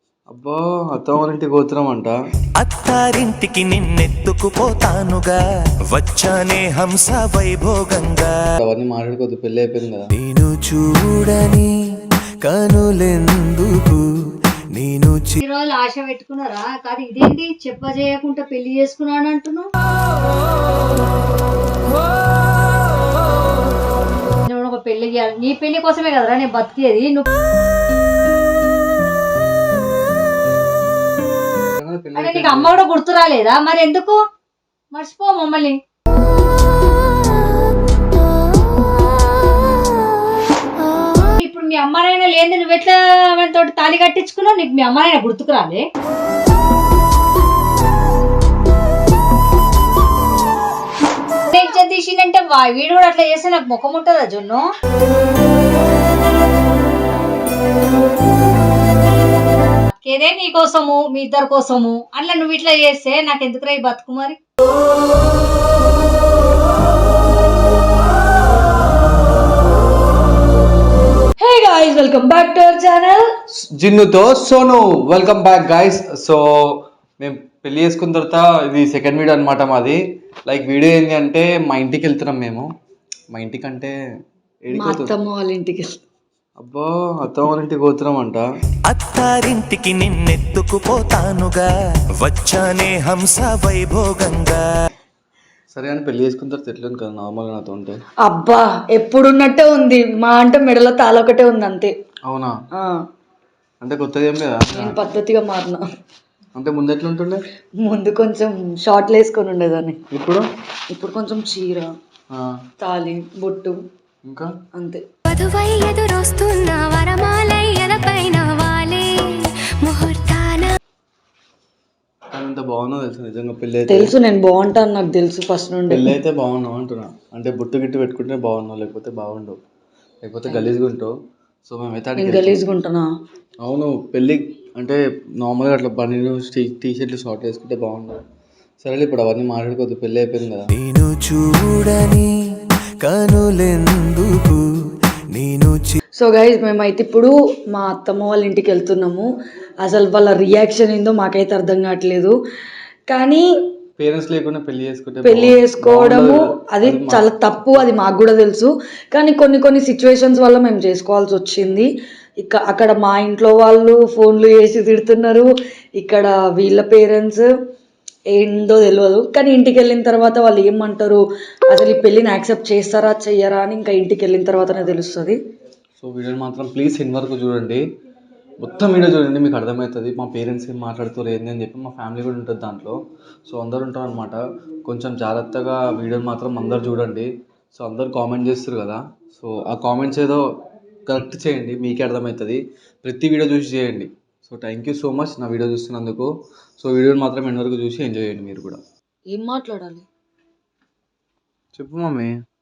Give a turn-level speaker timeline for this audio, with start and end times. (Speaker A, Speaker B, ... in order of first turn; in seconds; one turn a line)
Speaker A: 0.3-2.1
Speaker B: 2.6-5.4
Speaker B: 5.9-8.3
Speaker A: 8.6-10.1
Speaker B: 10.1-11.7
Speaker B: 12.4-14.0
Speaker B: 14.7-15.4
Speaker C: 15.4-19.7
Speaker C: 24.5-27.3
Speaker A: 31.8-32.8
Speaker C: 32.2-34.2
Speaker C: 34.9-35.8
Speaker C: 41.4-45.8
Speaker C: 51.5-54.7
Speaker C: 60.0-64.4
Speaker D: 71.4-73.3
Speaker A: 73.8-76.4
Speaker A: 77.2-82.7
Speaker A: 83.3-83.9
Speaker A: 84.7-85.1
Speaker D: 84.7-86.0
Speaker A: 86.6-88.4
Speaker B: 88.9-91.7
Speaker B: 92.2-94.6
Speaker A: 95.7-98.0
Speaker D: 98.2-101.9
Speaker A: 102.3-102.5
Speaker A: 103.8-105.0
Speaker D: 104.8-105.8
Speaker A: 106.6-107.4
Speaker D: 107.8-110.0
Speaker A: 110.1-110.5
Speaker D: 110.9-111.9
Speaker D: 112.8-113.8
Speaker D: 114.8-115.0
Speaker E: 115.3-119.1
Speaker E: 119.8-120.7
Speaker A: 122.4-124.1
Speaker D: 123.9-126.1
Speaker A: 125.9-129.6
Speaker A: 130.2-131.1
Speaker A: 131.7-132.6
Speaker D: 132.2-133.1
Speaker A: 133.6-138.2
Speaker A: 138.8-140.7
Speaker B: 140.7-142.3
Speaker B: 143.0-144.6
Speaker B: 145.3-146.0
Speaker D: 146.2-149.3
Speaker D: 149.8-152.3
Speaker D: 153.1-153.4
Speaker A: 154.0-157.8
Speaker D: 155.2-161.9
Speaker D: 162.4-165.5
Speaker D: 166.0-167.5
Speaker D: 168.3-175.4
Speaker A: 176.0-177.8
Speaker A: 178.6-182.9
Speaker A: 183.5-190.4
Speaker A: 191.1-196.3
Speaker A: 196.8-198.8
Speaker D: 199.3-200.1
Speaker A: 201.8-202.4